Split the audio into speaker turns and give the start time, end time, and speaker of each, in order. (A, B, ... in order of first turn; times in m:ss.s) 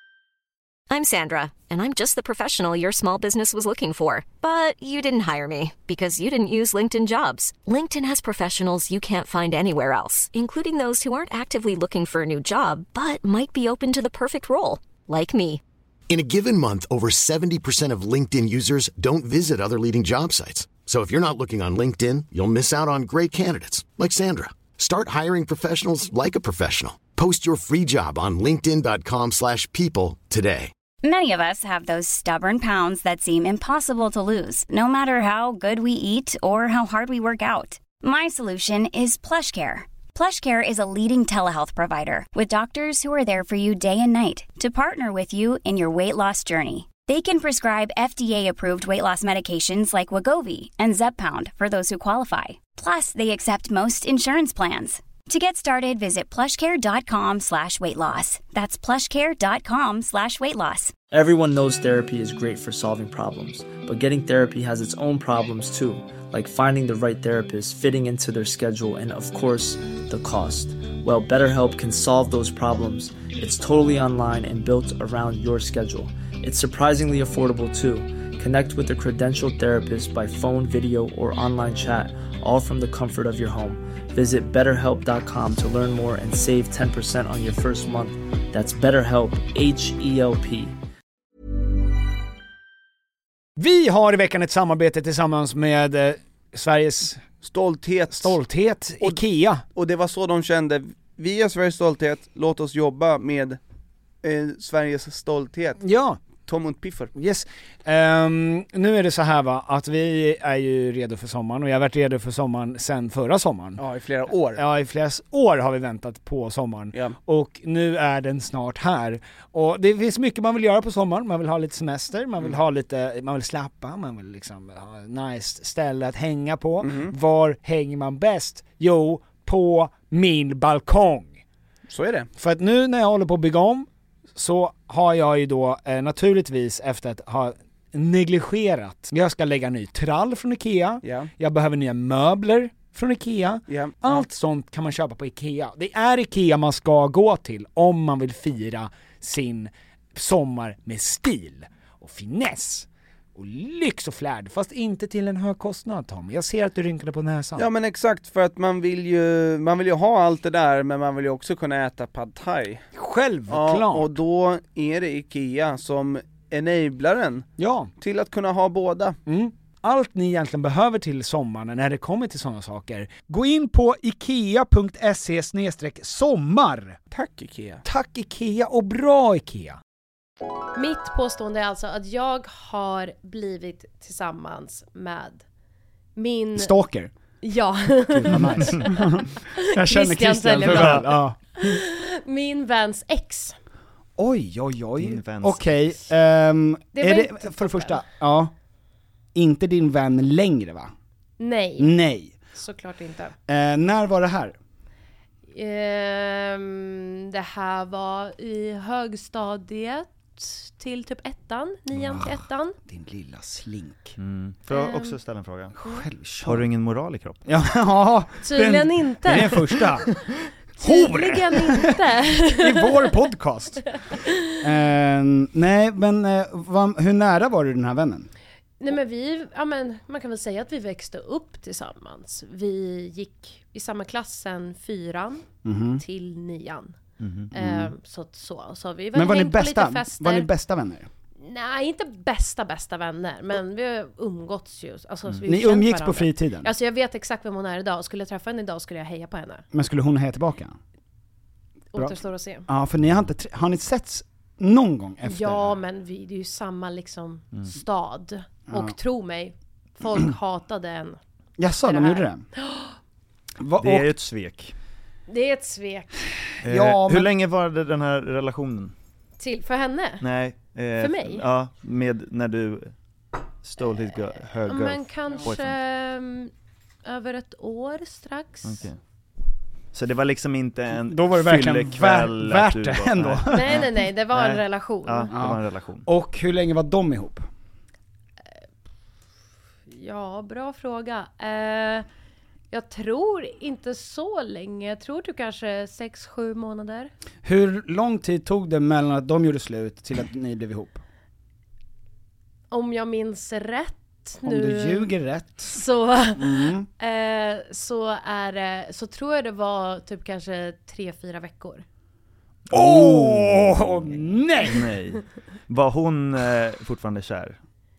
0:00.9-0:15.6 A
0:16.1-0:30.7 B
0:31.0-1:00.9 C
1:01.1-1:30.8 D
1:33.6-1:37.3 E
1:37.3-1:38.4 F
1:38.1-1:39.6 E
1:39.7-1:43.6 F
1:44.2-1:45.8 F
1:45.8-1:46.2 E
1:46.4-1:47.1 F
1:47.1-1:53.8 E
1:53.8-1:54.6 F
1:54.5-2:11.4 E
2:06.8-2:07.1 F
2:11.9-2:12.3 F
2:12.4-2:37.7 E
2:21.0-2:21.3 F
2:23.7-2:24.2 F
2:37.6-2:42.9 F
2:42.9-2:44.1 E
2:43.5-2:49.2 F
2:47.6-2:47.9 E
2:49.3-2:57.0 E
2:57.1-2:57.8 F
2:57.8-2:59.8 E
3:00.8-3:05.4 G
3:06.2-3:06.8 G
3:06.6-3:07.1 E
3:07.4-3:13.6 G
3:08.2-3:11.4 E
3:08.3-3:08.9 H
3:10.7-3:11.0 H
3:14.2-3:18.5 E
3:15.0-3:15.6 H
3:16.9-3:18.0 G
3:19.4-3:20.9 E
3:21.4-3:21.9 G
3:21.8-3:22.4 E
3:22.6-3:23.4 G
3:23.5-3:24.6 E
3:25.5-3:32.8 G
3:32.0-3:32.3 E
3:32.8-3:34.2 E
3:34.2-3:35.8 H
3:34.7-3:35.2 G
3:35.8-3:36.7 E
3:36.4-3:37.5 H
3:37.5-3:40.2 E
3:38.4-3:39.9 G
3:40.8-3:43.8 E
3:40.8-3:42.9 G
3:44.6-3:48.3 E
3:48.8-3:55.5 G
3:55.6-3:56.0 E
3:56.0-3:57.0 G
3:57.2-3:57.5 H
3:57.5-3:57.9 E
3:57.5-4:00.5 G
3:59.1-4:01.1 E
4:01.4-4:09.6 G
4:05.4-4:06.7 E
4:09.7-4:10.8 E
4:11.9-4:12.7 G
4:12.7-4:15.7 E
4:15.3-4:21.2 G
4:18.7-4:19.0 E
4:21.6-4:22.5 E
4:21.8-4:23.0 G
4:23.6-4:24.1 E
4:23.8-4:24.8 H
4:25.3-4:26.1 G
4:26.6-4:27.3 E
4:26.6-4:28.9 H
4:29.4-4:30.2 G
4:30.2-4:32.9 H
4:31.0-4:31.4 G
4:33.6-4:35.8 H
4:34.7-4:36.5 G
4:37.0-4:38.8 G
4:38.6-4:39.0 H
4:39.9-4:46.1 H
4:41.0-4:43.8 E
4:43.5-4:45.3 G
4:45.3-4:47.5 E
4:49.9-4:52.1 G
4:52.7-4:57.1 G
4:57.4-5:01.0 E
5:02.7-5:05.1 G
5:04.4-5:05.7 E
5:05.7-5:11.8 G
5:06.4-5:06.9 E
5:12.7-5:17.6 H
5:12.7-5:14.9 E